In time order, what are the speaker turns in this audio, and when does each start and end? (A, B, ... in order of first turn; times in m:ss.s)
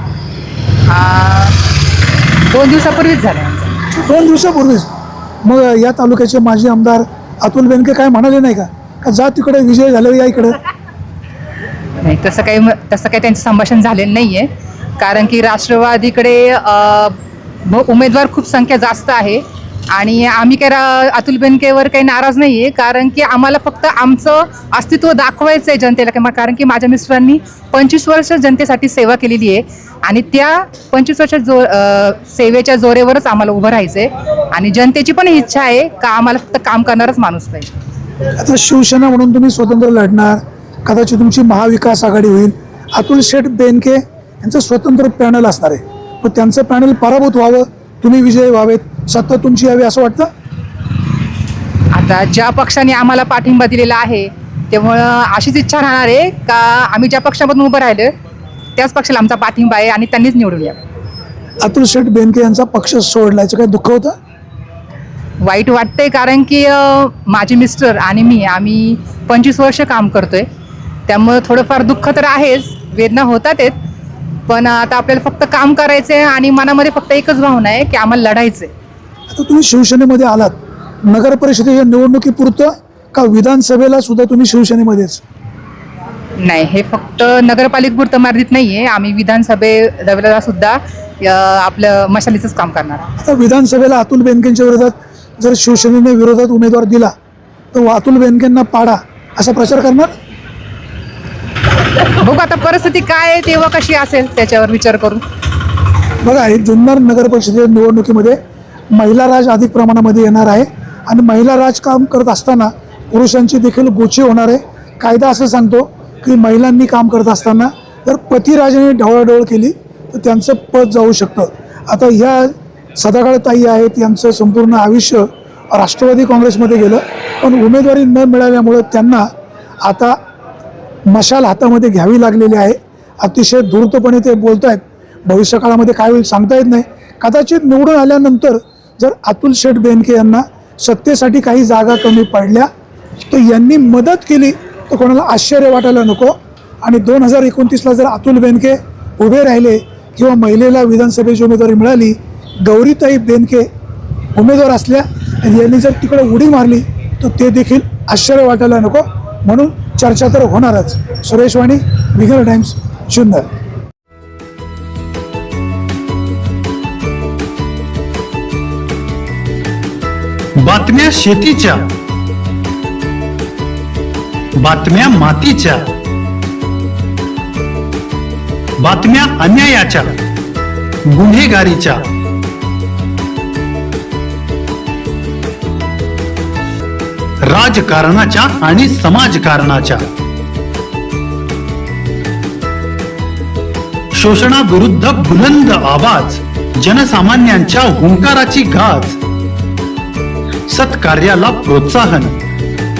0:00.9-0:01.5 A
0:02.5-0:03.8 A
0:04.0-0:04.9 B
0:05.4-0:10.6 B
0:12.0-0:37.7 A
0:38.4-0:50.3 B
0:51.9-0:58.1 A
0:58.8-1:00.8 A
1:01.6-1:04.1 B
1:05.4-1:10.5 A
1:11.1-1:13.8 A
1:14.5-1:18.7 A
1:19.3-1:20.5 B
1:21.1-1:25.2 B
1:26.4-1:33.1 A
1:33.2-1:37.1 B
1:37.7-1:40.1 B
1:42.2-1:45.2 A
1:46.2-1:48.4 B
1:48.9-2:09.3 B
2:09.8-2:10.2 B
2:11.1-2:22.7 B
2:23.3-2:33.7 B
2:34.4-2:43.4 B
2:50.6-2:51.9 C
2:54.6-2:55.9 C
2:58.8-3:00.2 C
3:01.1-3:02.1 C
3:07.5-3:10.1 C
3:14.1-3:19.2 C
3:20.7-3:22.4 C